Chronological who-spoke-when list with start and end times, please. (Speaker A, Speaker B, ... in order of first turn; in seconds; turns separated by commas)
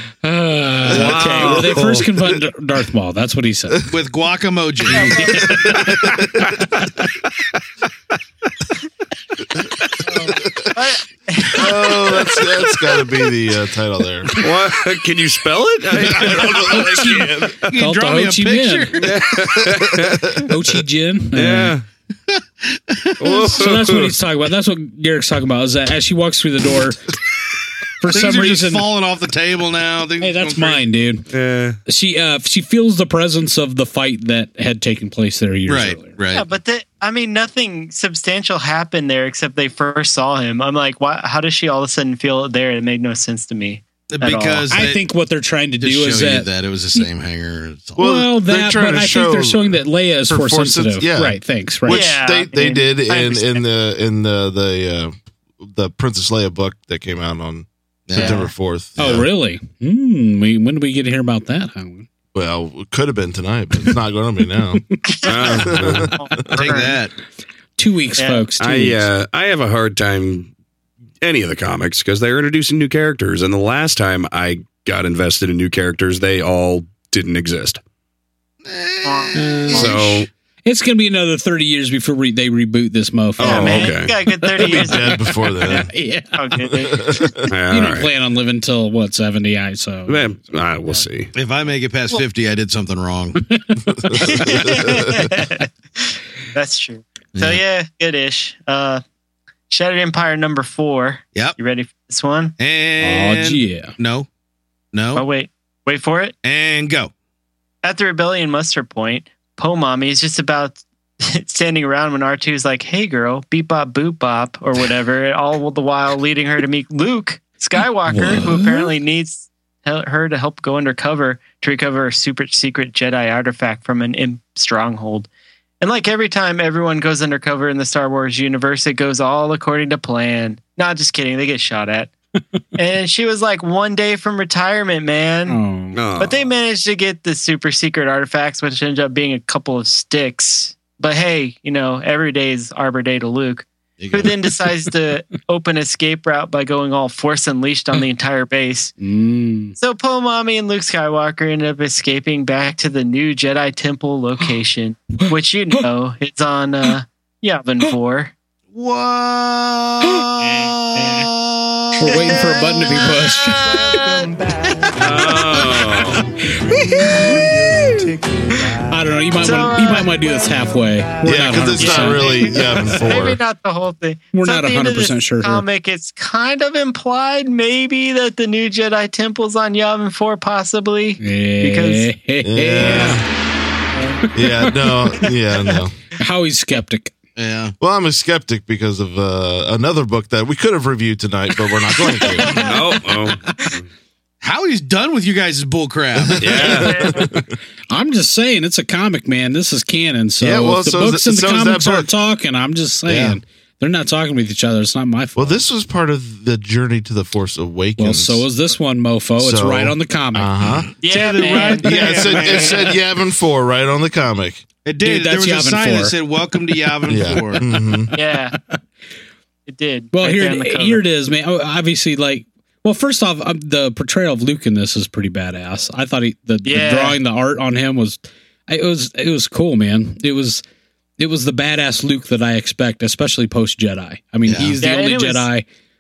Speaker A: 0.2-3.9, Speaker B: 0.9-2.1, Speaker C: 3.9-5.3, Speaker D: 4.9-5.8, Speaker A: 5.2-6.0, Speaker E: 5.5-6.5, Speaker D: 10.1-12.1, Speaker E: 10.4-10.7, Speaker E: 11.5-14.4, Speaker B: 14.4-17.1, Speaker E: 16.0-17.6, Speaker A: 16.2-19.1, Speaker C: 16.7-19.2, Speaker B: 19.0-20.5, Speaker A: 20.4-21.8, Speaker B: 21.3-21.8, Speaker C: 22.3-23.5, Speaker B: 23.2-24.2, Speaker A: 23.4-27.0, Speaker A: 28.0-28.9, Speaker C: 28.1-30.8, Speaker A: 30.2-31.3, Speaker B: 31.3-31.8, Speaker A: 31.9-36.1, Speaker C: 35.7-36.5, Speaker D: 36.3-44.7, Speaker C: 44.1-45.0, Speaker A: 44.7-47.1, Speaker C: 45.8-48.0, Speaker A: 48.0-52.1, Speaker E: 48.0-59.3, Speaker D: 51.9-53.6, Speaker C: 58.1-58.5, Speaker D: 58.1-58.5, Speaker A: 59.0-62.1, Speaker E: 62.3-66.6, Speaker A: 64.9-65.2, Speaker D: 65.1-67.0, Speaker B: 65.3-66.1, Speaker C: 66.5-67.1, Speaker A: 67.8-69.1, Speaker D: 68.2-68.4, Speaker B: 68.6-70.5, Speaker B: 71.2-77.8, Speaker C: 78.7-79.9, Speaker D: 79.0-80.0, Speaker A: 79.3-90.3, Speaker B: 79.7-80.3, Speaker B: 83.4-84.1, Speaker D: 83.4-85.8, Speaker E: 84.6-85.9, Speaker D: 86.3-87.2, Speaker E: 86.9-87.5, Speaker B: 87.5-88.1, Speaker B: 90.1-91.3, Speaker C: 91.3-93.4, Speaker A: 93.5-94.6, Speaker E: 94.0-95.3, Speaker D: 94.2-99.0, Speaker C: 97.3-97.6, Speaker D: 99.7-102.6, Speaker C: 102.6-104.3, Speaker A: 103.0-103.9, Speaker C: 104.9-105.2, Speaker D: 105.2-106.3, Speaker C: 106.4-107.1, Speaker D: 107.8-125.3, Speaker A: 118.1-118.9, Speaker D: 125.8-132.1, Speaker D: 132.8-135.6, Speaker A: 135.5-136.0, Speaker B: 135.9-136.3, Speaker D: 136.2-148.9, Speaker C: 144.0-144.3, Speaker A: 149.0-149.8, Speaker D: 149.8-158.3, Speaker A: 155.2-155.8, Speaker C: 158.7-162.3, Speaker D: 160.4-161.3, Speaker A: 162.0-164.0, Speaker D: 162.1-163.1, Speaker C: 163.4-164.4, Speaker D: 164.9-165.6, Speaker B: 164.9-166.2, Speaker A: 166.6-168.1, Speaker C: 167.0-168.0, Speaker A: 168.9-172.9, Speaker D: 169.4-170.2, Speaker E: 171.2-173.4, Speaker D: 171.8-182.1, Speaker A: 174.3-175.6, Speaker A: 181.2-183.3, Speaker E: 182.4-183.2, Speaker D: 183.9-184.3, Speaker A: 184.3-184.7, Speaker E: 184.3-186.0, Speaker A: 186.2-187.1, Speaker C: 187.4-187.8, Speaker E: 187.8-192.7, Speaker A: 192.2-192.5, Speaker D: 192.3-192.7, Speaker B: 192.5-193.8, Speaker A: 193.5-193.7, Speaker C: 194.4-196.8, Speaker E: 196.3-197.5, Speaker B: 196.4-197.2, Speaker D: 196.6-197.3, Speaker A: 197.9-205.6, Speaker E: 200.4-202.1, Speaker C: 203.1-203.4, Speaker E: 205.4-208.5, Speaker A: 208.0-210.5, Speaker E: 209.4-210.9, Speaker C: 210.9-212.9, Speaker D: 211.0-212.8, Speaker E: 211.8-214.7, Speaker C: 214.8-217.6, Speaker A: 215.0-216.2, Speaker E: 217.1-218.1, Speaker A: 218.1-218.8, Speaker D: 218.1-218.6, Speaker D: 219.7-221.0, Speaker A: 220.1-230.6, Speaker D: 226.7-227.2, Speaker A: 231.2-235.7, Speaker C: 234.5-234.8, Speaker D: 234.8-235.5